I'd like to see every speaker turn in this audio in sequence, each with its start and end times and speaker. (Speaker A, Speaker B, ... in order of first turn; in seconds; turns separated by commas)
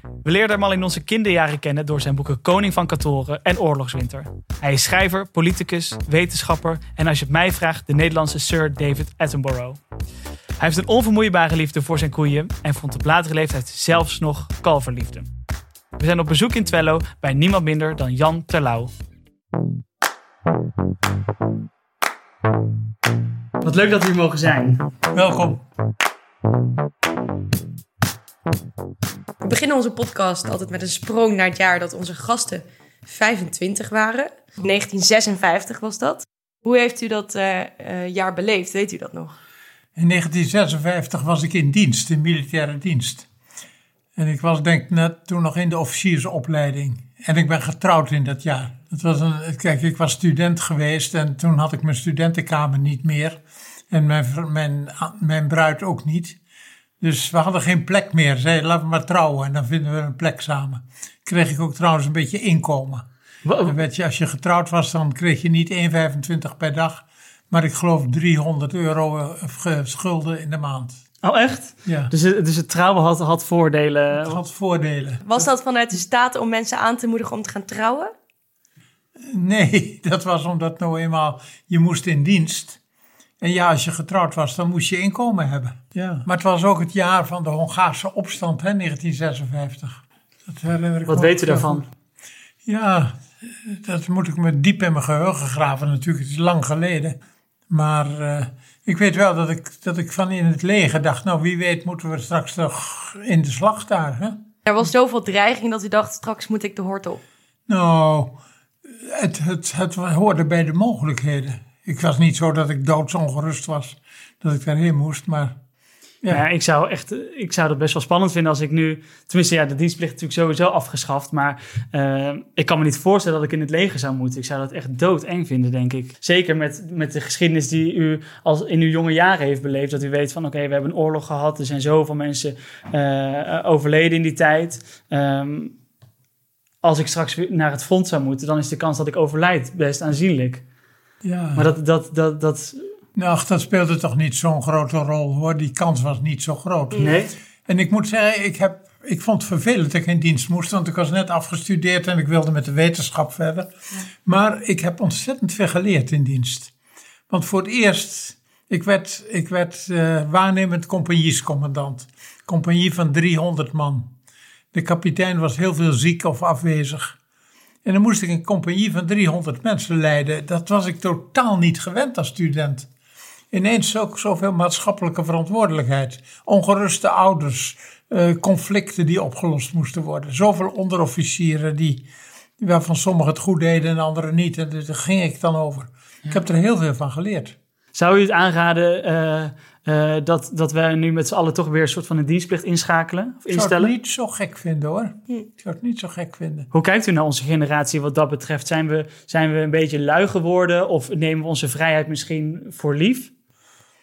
Speaker A: 0.2-9.8, Speaker A: 10.6-15.3, Speaker A: 16.0-18.9, Speaker A: 23.6-24.9, Speaker B: 25.1-25.6, Speaker C: 29.4-39.4, Speaker B: 40.0-43.3, Speaker B: 44.2-56.4, Speaker B: 57.0-63.1, Speaker A: 63.5-63.7, Speaker B: 63.6-71.0, Speaker A: 71.2-74.4, Speaker B: 71.8-72.1, Speaker B: 74.1-75.2, Speaker C: 75.2-78.1, Speaker B: 79.2-82.8, Speaker B: 83.4-91.8, Speaker A: 91.1-91.9, Speaker B: 92.7-97.2, Speaker B: 97.7-104.4, Speaker C: 104.7-107.2, Speaker B: 107.7-108.3, Speaker B: 108.9-115.5, Speaker A: 116.3-135.8, Speaker A: 136.8-140.6, Speaker B: 141.2-141.7, Speaker A: 141.6-142.8, Speaker B: 143.2-153.7, Speaker A: 146.9-147.3, Speaker B: 154.2-156.7, Speaker B: 157.3-164.1, Speaker B: 164.7-167.2, Speaker B: 167.8-172.9, Speaker B: 173.5-182.0, Speaker B: 182.6-187.6, Speaker A: 187.9-193.9, Speaker B: 193.5-196.7, Speaker A: 196.7-203.3